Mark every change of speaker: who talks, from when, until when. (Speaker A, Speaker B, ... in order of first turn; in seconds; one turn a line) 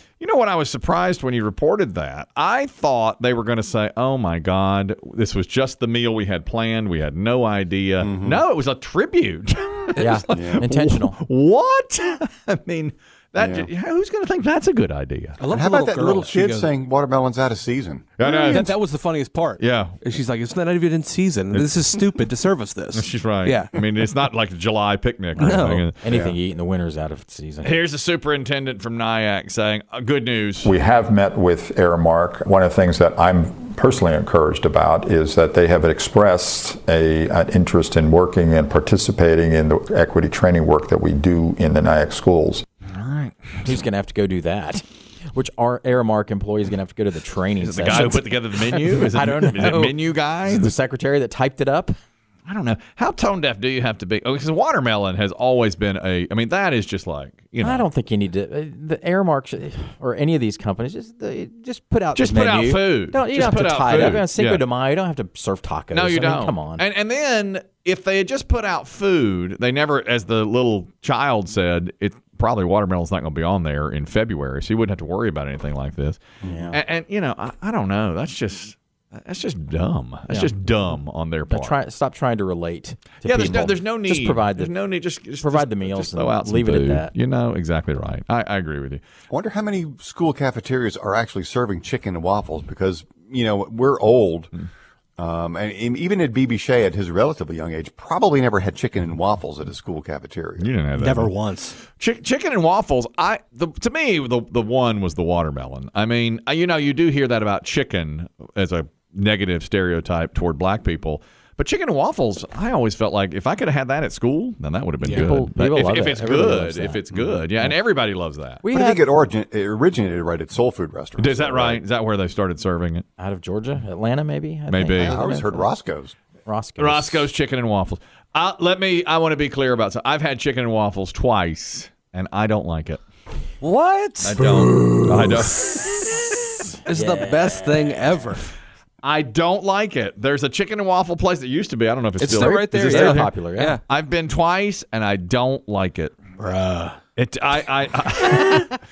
Speaker A: 0.2-15.4
Speaker B: 8.0-8.4
Speaker C: 10.0-11.2
Speaker B: 10.3-10.7
Speaker B: 13.4-13.7
Speaker D: 15.4-16.7
Speaker B: 15.5-18.6
Speaker A: 18.2-18.7
Speaker D: 18.2-23.8
Speaker A: 19.6-20.0
Speaker A: 22.9-25.9
Speaker D: 25.4-25.9
Speaker C: 26.0-27.8
Speaker B: 26.1-26.4
Speaker A: 27.6-30.7
Speaker E: 30.6-42.6
Speaker A: 42.9-43.4
Speaker C: 43.6-51.9
Speaker A: 47.6-50.7
Speaker A: 52.5-57.8
Speaker C: 57.6-66.8
Speaker A: 62.1-64.6
Speaker A: 65.9-76.2
Speaker C: 76.4-76.8
Speaker A: 76.7-81.8
Speaker C: 81.5-84.7
Speaker A: 83.2-89.0
Speaker C: 85.4-87.1
Speaker B: 89.3-94.5
Speaker B: 95.2-100.7
Speaker A: 100.6-101.3
Speaker D: 101.0-101.8
Speaker A: 101.8-118.6
Speaker D: 115.0-115.3
Speaker C: 115.1-117.0
Speaker B: 117.1-117.4
Speaker C: 118.6-119.1
Speaker B: 118.7-121.8
Speaker A: 121.2-123.1
Speaker C: 123.2-125.7
Speaker A: 124.7-125.2
Speaker B: 125.0-126.2
Speaker C: 126.4-127.3
Speaker A: 126.8-133.0
Speaker D: 133.6-134.4
Speaker A: 134.2-136.1
Speaker D: 136.9-138.4
Speaker C: 136.9-137.7
Speaker A: 139.0-143.3
Speaker D: 142.2-143.8
Speaker C: 142.3-143.8
Speaker A: 143.8-146.2
Speaker D: 146.4-147.0
Speaker A: 147.2-148.7